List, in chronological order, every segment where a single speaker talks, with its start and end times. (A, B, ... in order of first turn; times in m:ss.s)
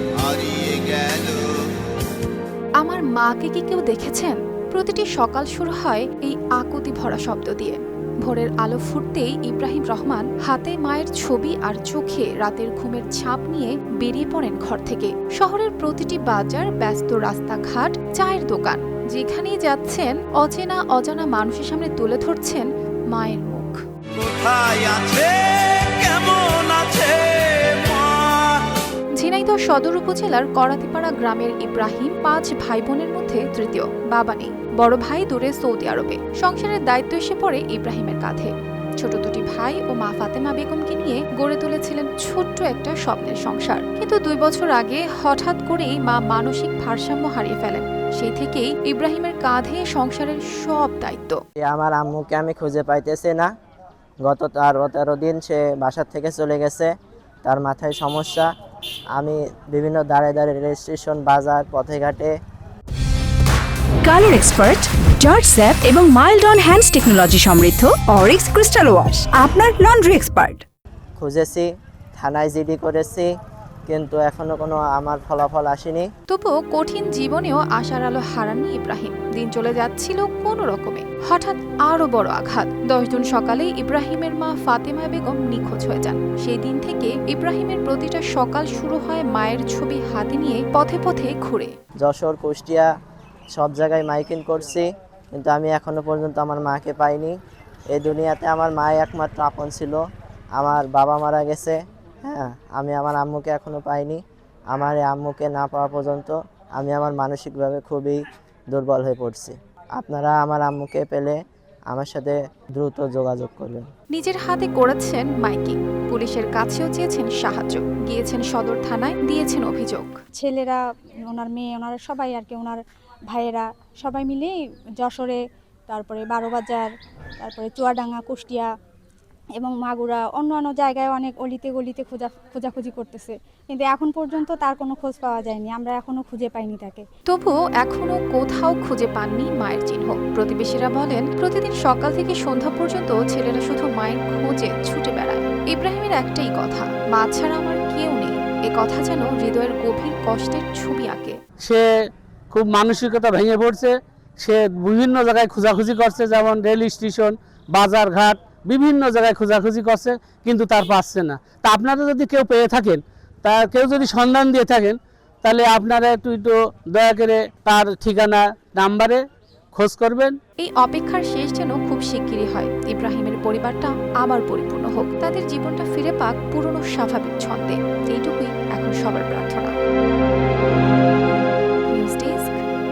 0:00.2-0:01.7 A
0:02.8-0:23.8 B
0:24.1-0:28.6 A
0:29.2-0:51.4 B
0:51.6-0:53.5 C
0:54.2-0:56.9 C
0:57.4-0:58.5 C
0:59.1-1:02.3 C
1:04.0-1:10.6 D
1:11.2-1:13.3 C
1:13.9-1:16.1 C
1:16.3-1:31.7 B
1:32.0-1:32.9 C
1:33.5-1:37.3 C
1:37.9-1:40.0 C
1:40.6-1:51.4 C
1:51.9-1:53.8 C
1:54.1-2:00.1 B
2:00.3-2:08.7 E
2:09.6-2:17.0 E
2:17.3-2:31.4 B
2:32.5-2:50.3 F
2:50.6-2:59.7 B
3:01.9-3:02.6 B